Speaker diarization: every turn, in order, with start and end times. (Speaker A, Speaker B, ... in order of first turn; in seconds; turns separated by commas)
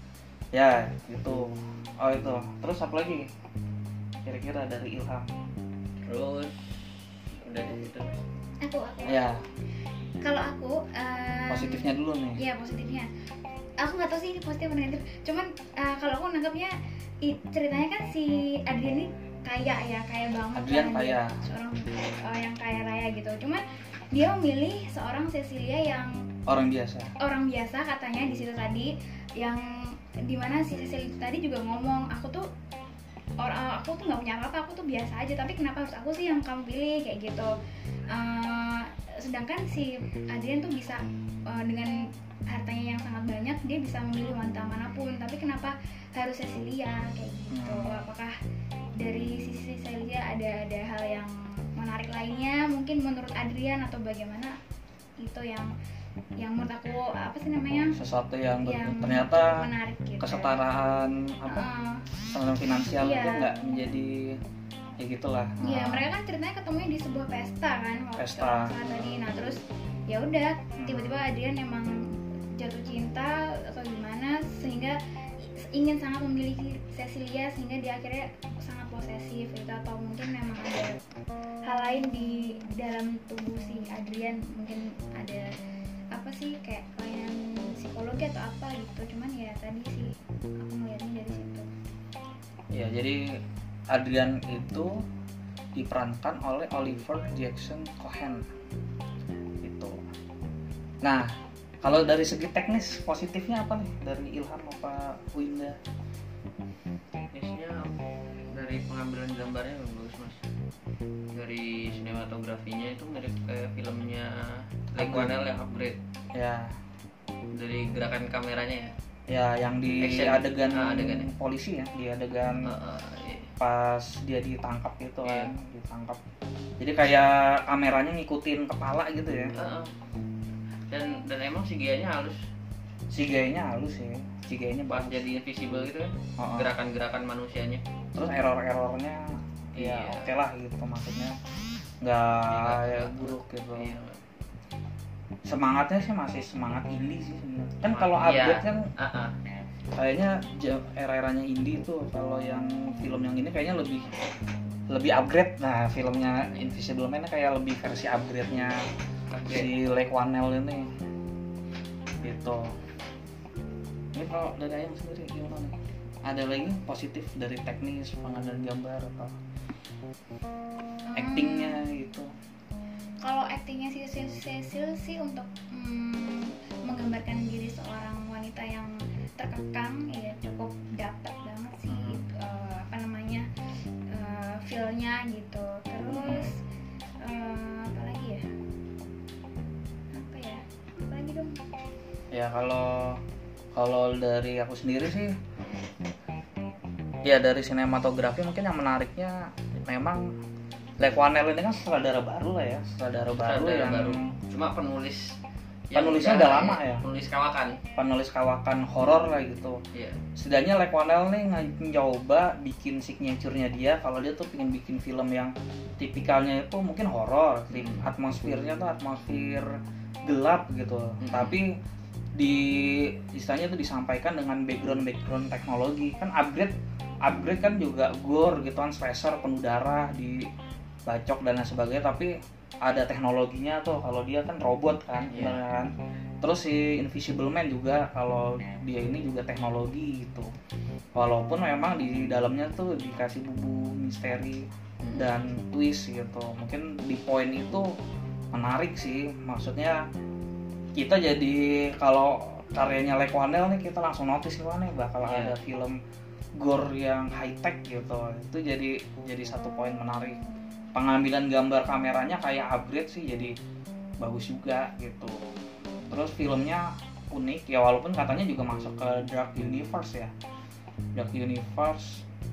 Speaker A: 0.5-3.3, Speaker A: 4.2-5.3, Speaker B: 6.0-8.2, Speaker C: 8.6-9.4, Speaker A: 9.0-9.4, Speaker C: 10.2-13.1, Speaker A: 11.5-12.4, Speaker C: 13.8-26.1, Speaker A: 20.5-21.3, Speaker A: 26.5-27.1, Speaker C: 27.2-32.5, Speaker C: 33.4-37.5, Speaker C: 38.1-41.9, Speaker C: 42.5-48.3, Speaker A: 47.5-48.0, Speaker C: 49.0-54.5, Speaker C: 55.2-55.7, Speaker C: 56.4-58.0, Speaker A: 58.0-59.6, Speaker C: 58.6-60.6, Speaker A: 60.2-61.7, Speaker C: 61.5-62.0, Speaker A: 62.3-64.4, Speaker C: 63.0-63.5, Speaker A: 65.0-66.1, Speaker C: 65.6-71.9, Speaker A: 68.2-69.2, Speaker A: 70.8-71.2, Speaker C: 72.6-81.0, Speaker C: 81.6-85.5, Speaker C: 86.1-91.7, Speaker A: 92.7-93.3, Speaker A: 93.9-95.0, Speaker A: 95.8-98.5, Speaker A: 99.6-100.0, Speaker A: 101.0-101.3, Speaker A: 101.8-105.8, Speaker B: 107.3-108.0, Speaker B: 108.5-110.4, Speaker B: 111.3-116.0, Speaker A: 114.9-115.3, Speaker A: 116.3-116.7, Speaker B: 117.5-118.9, Speaker A: 119.3-122.7, Speaker B: 120.0-121.3, Speaker B: 122.6-123.5, Speaker A: 123.6-126.2, Speaker B: 125.2-125.5, Speaker A: 126.8-129.5, Speaker B: 129.5-129.9, Speaker B: 130.9-132.4, Speaker A: 133.1-135.2, Speaker B: 134.9-137.8, Speaker A: 136.4-136.7, Speaker A: 138.1-141.3, Speaker B: 139.8-140.3, Speaker A: 142.0-143.9, Speaker B: 142.5-144.2, Speaker A: 145.5-148.8, Speaker B: 147.9-149.3, Speaker A: 149.9-154.1, Speaker A: 154.9-158.8, Speaker B: 159.3-159.7, Speaker A: 159.5-160.9, Speaker A: 162.2-162.7, Speaker A: 164.1-169.3, Speaker C: 171.1-171.8, Speaker A: 171.2-172.3, Speaker C: 173.2-183.4, Speaker A: 181.9-182.2, Speaker C: 184.1-186.6, Speaker A: 186.1-186.5, Speaker C: 187.2-188.4, Speaker C: 190.1-191.6, Speaker A: 192.3-193.2, Speaker A: 193.8-195.3, Speaker A: 197.2-200.3, Speaker A: 201.0-204.3, Speaker B: 203.4-205.3, Speaker B: 205.9-207.8, Speaker A: 205.9-207.0, Speaker A: 207.9-209.8, Speaker B: 209.9-210.2, Speaker A: 210.3-219.7, Speaker B: 217.7-218.1, Speaker A: 220.3-221.7, Speaker B: 221.2-221.6, Speaker A: 222.3-230.5, Speaker A: 231.1-240.5, Speaker B: 235.3-235.6, Speaker A: 241.1-247.9, Speaker B: 245.0-245.3, Speaker A: 248.5-250.0, Speaker A: 250.9-256.0, Speaker B: 255.2-255.5, Speaker A: 256.6-260.4, Speaker A: 260.9-263.5, Speaker A: 264.2-265.4, Speaker A: 266.1-270.3, Speaker A: 271.1-272.2